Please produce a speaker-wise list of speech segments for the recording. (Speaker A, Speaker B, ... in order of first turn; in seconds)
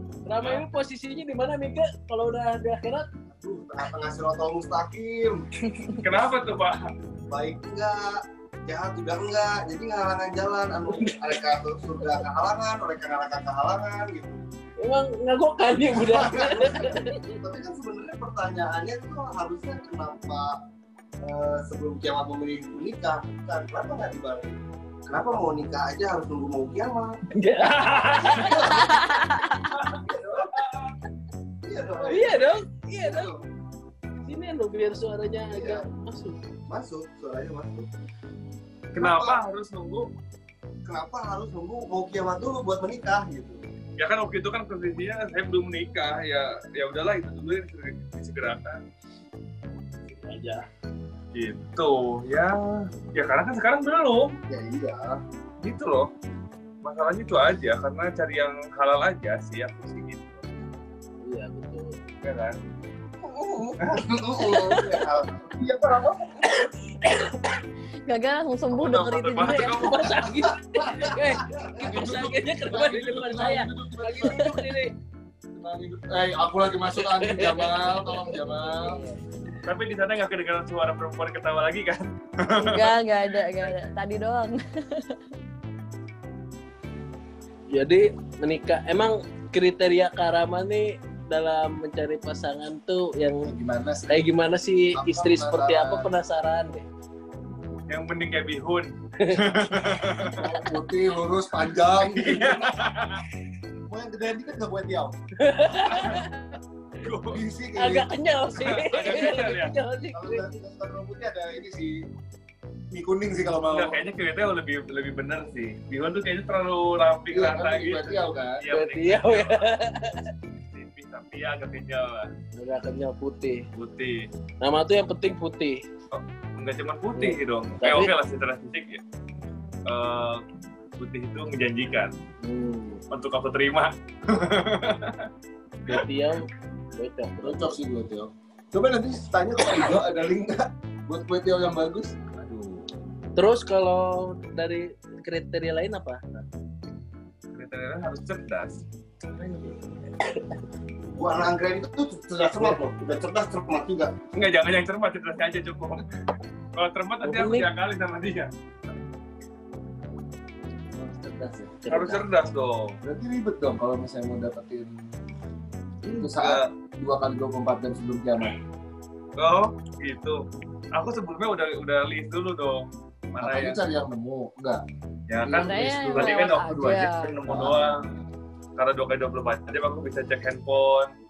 Speaker A: 0.3-3.1, 14.8-17.1, 27.3-29.2, 32.1-33.3, 34.3-36.4, 50.1-50.6, 61.2-62.0, 66.5-67.6, 69.4-74.9, 77.0-78.4, 87.7-93.5, 94.1-96.9, 99.2-100.1, 105.4-106.6, 107.8-110.5, 118.7-120.3, 122.6-123.7, 124.6-125.8, 127.2-128.1, 135.9-137.8, 143.4-146.5, 149.3-150.6, 157.2-157.7, 161.8-162.2
Speaker B: 3.4-6.2, 7.3-14.4, 16.0-20.6, 21.2-27.2, 28.1-29.1, 29.9-30.5, 31.6-33.5, 35.5-35.8, 36.7-37.9, 38.9-39.4, 40.9-43.6, 54.5-55.2, 63.8-66.5, 151.2-154.1
Speaker C: 5.8-6.9, 27.6-28.7, 29.7-30.9, 38.9-40.1, 44.0-48.8, 51.3-54.4, 55.6-56.1, 56.8-60.4, 62.2-62.6, 68.7-70.2, 79.6-83.0, 97.9-100.5, 102.0-103.2, 105.8-106.2, 107.0-107.4, 108.5-109.7, 113.7-119.7, 120.7-122.3, 123.7-124.3, 126.1-129.0, 129.9-130.4, 131.0-132.2, 133.1-135.3, 142.4-142.9, 147.5-148.8, 154.3-156.1, 156.8-158.5, 161.9-163.0, 166.1-166.7, 169.4-173.8, 175.3-178.1, 178.8-181.1
Speaker D: 28.7-29.7, 68.1-70.0, 78.8-79.1, 82.5-85.2, 175.6-177.5
Speaker E: 70.8-71.1, 71.7-74.6, 75.5-79.0, 93.4-94.2, 94.9-96.1, 100.2-102.8, 103.9-105.1, 107.3-108.1, 110.2-112.0, 112.9-114.0, 117.3-118.6, 137.4-142.2, 161.0-161.8, 163.0-164.9, 166.2-168.6, 173.4-174.8, 175.4-176.5, 177.4-178.3